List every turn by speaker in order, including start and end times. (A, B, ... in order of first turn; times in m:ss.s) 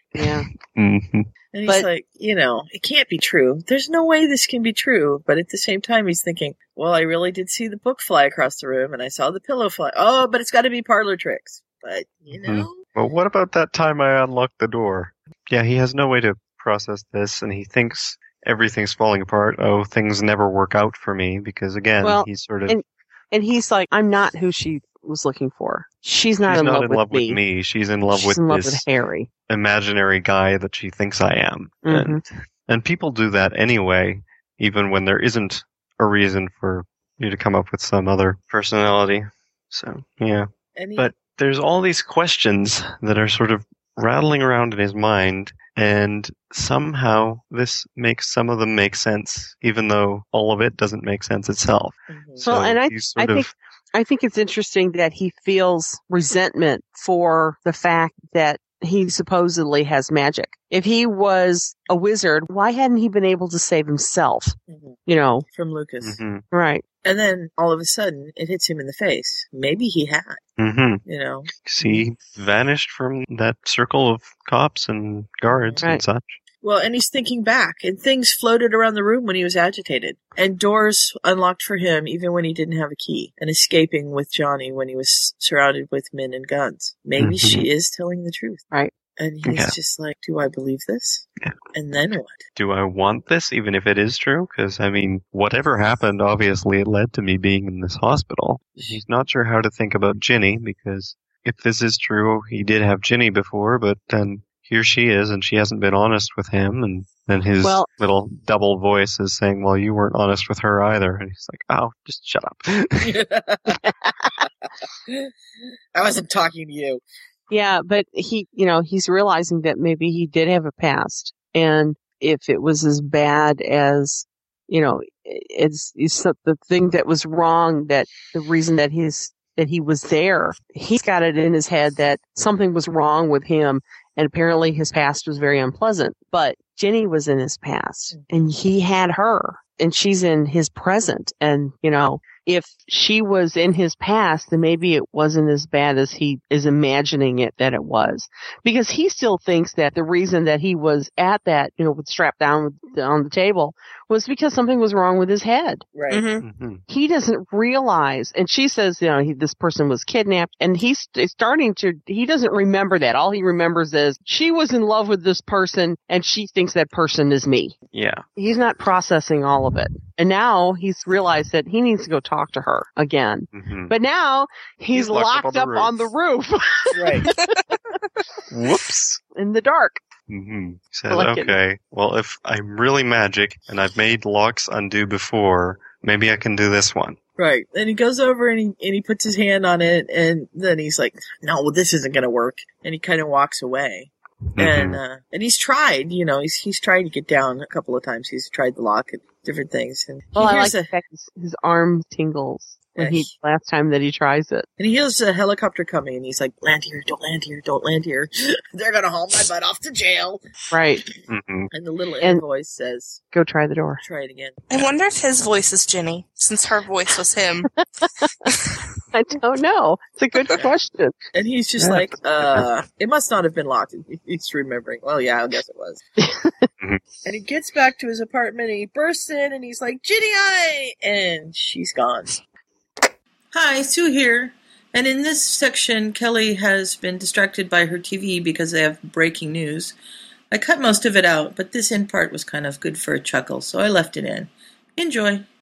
0:00.2-0:00.5 A
0:00.2-0:01.3 B
0:01.5-0:12.9 C
0:12.4-0:22.8 B
0:22.0-0:27.4 A
0:26.5-0:28.8 B
0:28.1-0:29.3 A
0:29.5-0:53.5 B
0:31.8-0:32.2 A
0:40.8-0:41.2 C
0:52.1-0:52.5 C
0:52.5-1:04.6 A
1:04.7-1:05.0 C
1:05.1-1:05.4 A
1:05.5-1:06.2 C
1:06.0-1:06.4 B
1:06.5-1:06.8 A
1:07.0-1:10.4 C
1:10.6-1:11.0 B
1:11.1-1:12.0 C
1:11.6-1:16.4 B
1:15.5-1:15.8 C
1:16.6-1:28.6 C
1:27.2-1:27.7 B
1:29.2-1:32.5 C
1:29.4-1:29.8 B
1:32.6-1:53.2 B
1:47.6-1:47.9 A
1:53.0-1:53.8 C
1:56.0-1:57.0 C
1:57.5-2:35.8 A
2:36.0-2:36.3 C
2:36.4-2:36.8 B
2:36.9-2:47.8 A
2:47.9-2:48.2 B
2:48.4-2:57.5 A
2:53.5-2:53.9 B
2:54.9-2:56.1 B
2:56.9-2:57.3 C
2:58.5-2:59.2 B
2:59.4-3:00.0 A
3:00.3-3:07.2 B
3:01.1-3:01.6 A
3:07.4-3:20.9 C
3:14.6-3:15.0 B
3:20.4-3:24.7 A
3:23.0-3:23.3 C
3:24.8-3:30.4 C
3:30.7-3:31.0 A
3:31.3-3:31.7 B
3:31.7-3:33.2 C
3:33.3-3:34.0 A
3:34.0-3:34.6 C
3:34.7-3:37.7 D
3:39.1-3:41.1 A
3:41.4-3:46.0 C
3:41.8-3:42.6 B
3:46.2-3:46.6 A
3:47.2-3:52.4 C
3:53.5-4:00.0 C
4:00.5-4:05.5 C